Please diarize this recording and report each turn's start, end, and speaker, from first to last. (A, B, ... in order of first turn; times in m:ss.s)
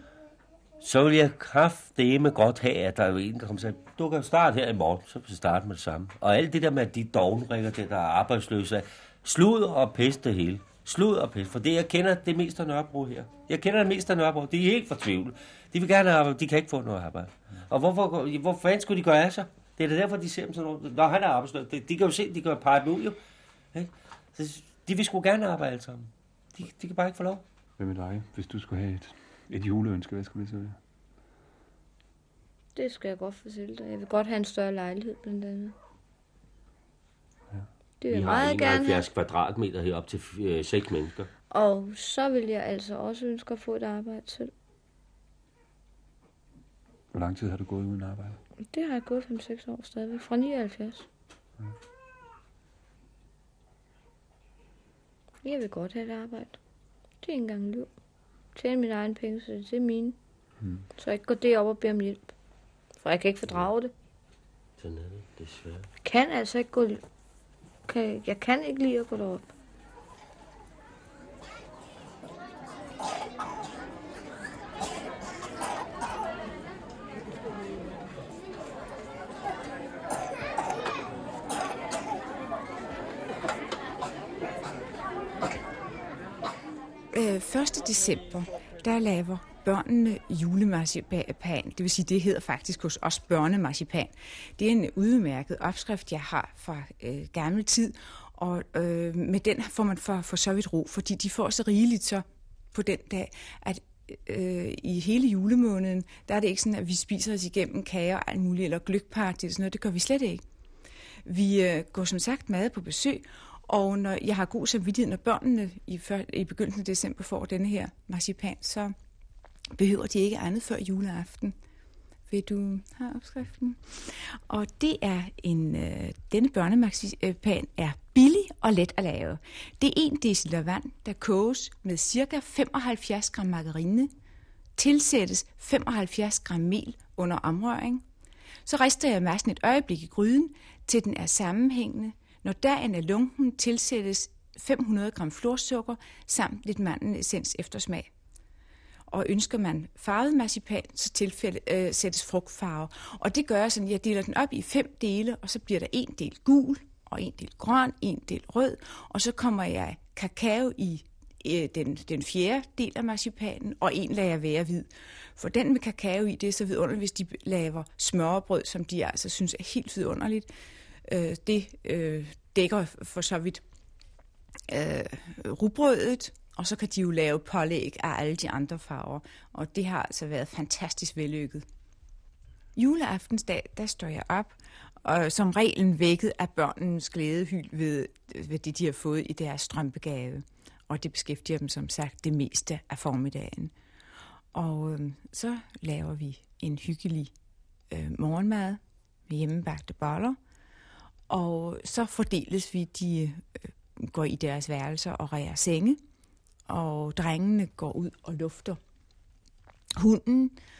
0:00.8-0:23.2 A
0:23.7-0:27.4 A
0:27.8-0:30.8 B
0:32.7-0:35.7 C
0:38.0-0:39.0 C
0:38.1-0:41.3 A
0:41.5-0:44.5 C
0:47.1-0:48.4 B
0:48.7-0:51.0 C
0:55.4-0:56.6 C
0:57.2-0:57.9 C
0:58.5-1:00.2 C
1:01.0-1:02.3 C
1:03.0-1:03.9 C
1:04.8-1:05.9 A
1:06.0-1:07.0 C
1:07.8-1:09.5 C
1:27.1-1:50.4 D
1:51.2-1:58.9 D
1:59.8-2:01.5 D
2:02.3-2:14.1 D
2:14.8-2:18.0 D
2:18.6-2:28.1 D
2:29.1-2:50.5 D
2:51.0-2:53.6 D
2:54.7-3:01.6 D
3:02.8-3:13.7 D
3:14.5-3:17.3 D
3:17.9-3:20.4 D
3:21.3-3:26.0 D
3:26.7-3:28.8 D
3:30.0-3:30.6 D